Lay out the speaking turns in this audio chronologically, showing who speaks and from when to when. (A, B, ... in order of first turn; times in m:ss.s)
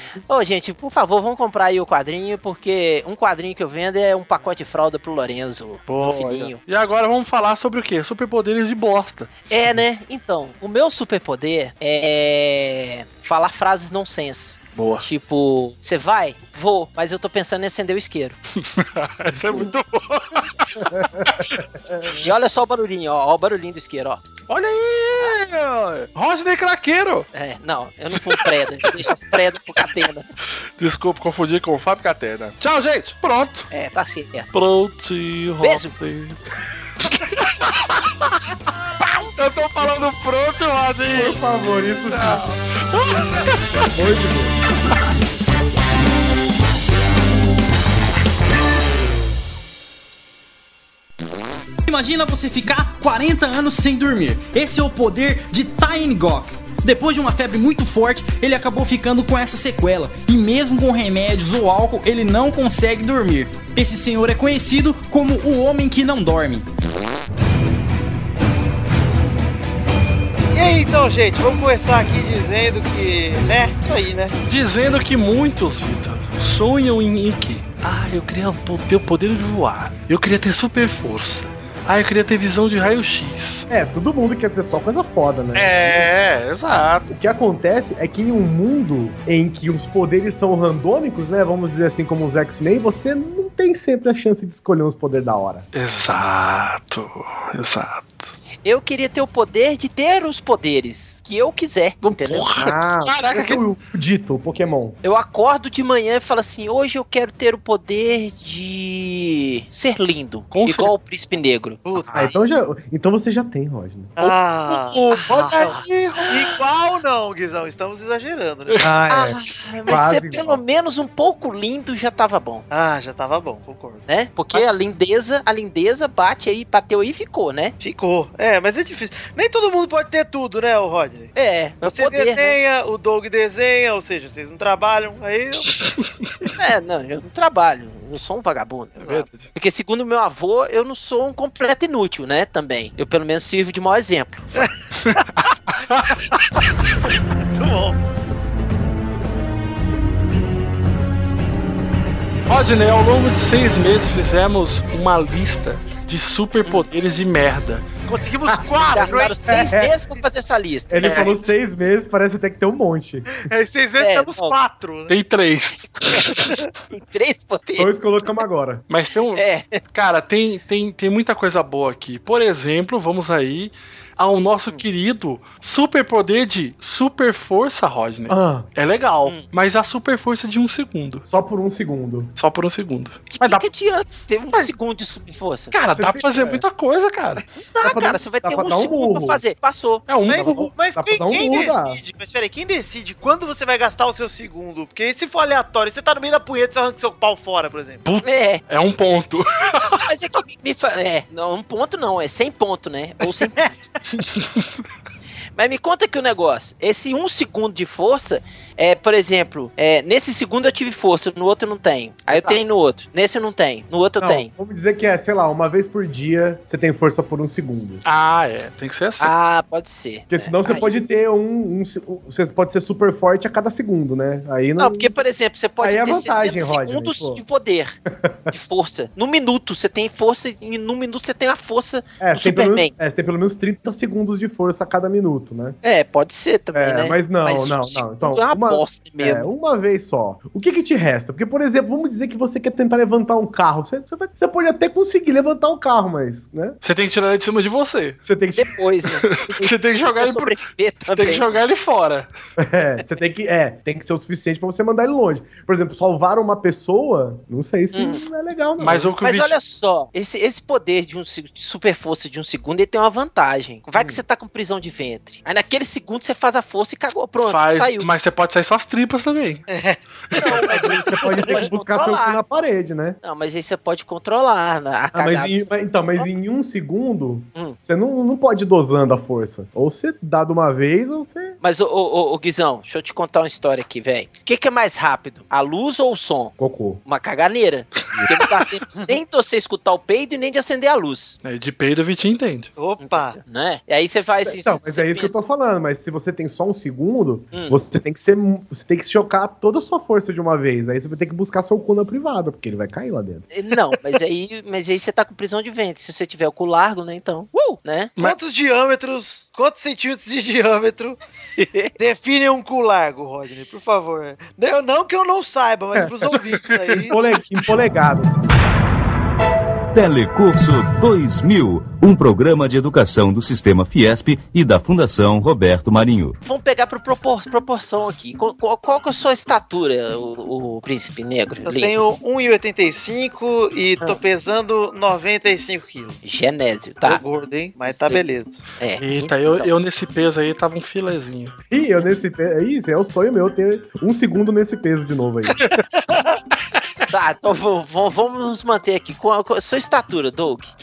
0:00.3-0:06.6 A
0:05.9-0:09.8 B
0:09.5-0:18.4 A
0:14.8-0:15.1 B
0:18.6-0:22.1 B
0:22.0-0:24.3 A
0:24.5-0:27.3 B
0:27.3-0:30.3 A
0:28.2-0:29.2 B
0:30.8-0:33.7 B
0:33.7-0:34.5 A
0:34.5-0:36.4 B
0:35.6-0:35.9 A
0:37.0-0:38.0 B
0:39.4-0:41.4 B
0:41.1-0:42.5 C
0:42.1-0:43.9 B
0:43.9-0:44.6 C
0:51.9-1:06.7 D
1:10.5-1:14.4 E
1:14.5-1:23.7 B
1:23.7-1:26.1 C
1:25.6-1:27.1 B
1:27.1-1:35.6 C
1:35.7-1:38.3 B
1:38.6-1:42.5 A
1:42.2-1:43.6 B
1:42.6-1:45.0 C
1:45.0-1:51.8 A
1:50.5-1:50.9 B
1:51.9-1:52.3 E
1:52.1-1:54.1 C
1:54.2-1:58.9 E
1:54.2-1:56.5 B
1:55.1-1:55.8 A
1:58.8-2:00.6 C
1:59.1-2:02.6 A
2:02.7-2:04.6 E
2:04.1-2:07.8 A
2:07.8-2:15.7 E
2:11.4-2:12.6 A
2:16.6-2:19.0 A
2:19.0-2:19.3 E
2:19.0-2:19.5 B
2:19.5-2:24.7 A
2:24.6-2:25.2 E
2:25.9-2:26.1 B
2:27.5-2:28.0 E
2:32.5-2:37.8 B
2:38.1-2:39.7 E
2:38.8-2:41.4 A
2:39.5-2:39.9 C
2:40.9-2:43.4 C
2:41.0-2:41.3 B
2:43.3-2:45.1 E
2:44.0-2:44.6 A
2:45.1-2:46.3 B
2:45.8-2:47.9 A
2:47.8-2:48.8 C
2:48.9-3:01.2 B
2:49.4-2:49.8 A
2:58.3-2:58.7 C
3:01.3-3:02.3 C
3:02.4-3:03.6 B
3:03.4-3:05.7 A
3:05.7-3:07.4 B
3:05.9-3:06.6 C
3:07.6-3:10.1 A
3:07.8-3:09.4 C
3:10.1-3:10.7 B
3:10.3-3:18.0 E
3:10.3-3:12.0 C
3:18.0-3:20.0 B
3:18.2-3:18.6 A
3:19.9-3:23.7 A
3:24.4-3:24.6 B
3:25.6-3:34.5 A
3:34.2-3:38.0 C
3:38.0-3:39.3 B
3:39.2-3:40.9 A
3:40.3-3:45.1 C
3:44.8-3:48.0 A
3:45.8-3:47.4 C
3:48.1-3:48.5 C
3:48.5-3:52.9 A
3:52.2-3:55.8 C
3:55.8-3:59.5 A
3:56.7-4:06.8 C
4:06.8-4:08.2 B
4:08.2-4:08.8 C
4:08.6-4:11.5 A
4:09.2-4:10.6 B
4:11.1-4:12.3 B
4:12.6-4:19.1 C
4:17.9-4:18.2 A
4:18.8-4:19.5 B
4:19.2-4:28.1 A
4:24.0-4:24.2 C
4:27.4-4:29.7 B
4:29.7-4:31.6 E
4:30.3-4:32.4 A
4:30.4-4:33.2 C
4:33.2-4:36.3 A
4:35.1-4:41.6 C
4:41.6-4:46.5 A
4:46.6-4:47.0 C
4:47.0-4:51.4 A
4:51.4-4:52.7 B
4:52.8-4:53.4 E
4:53.0-4:55.4 A
4:54.4-5:03.5 C
4:57.5-4:57.8 A
5:03.5-5:08.1 A
5:08.2-5:11.2 E
5:11.6-5:11.9 A
5:12.0-5:17.2 E
5:17.1-5:18.3 C
5:19.9-5:26.4 F
5:26.4-5:32.0 A
5:31.6-5:36.2 E
5:36.2-5:37.2 A
5:37.0-5:38.6 E
5:37.9-5:38.2 A
5:38.8-5:39.7 A
5:39.0-5:41.5 B
5:41.7-5:45.6 C
5:47.1-5:50.7 A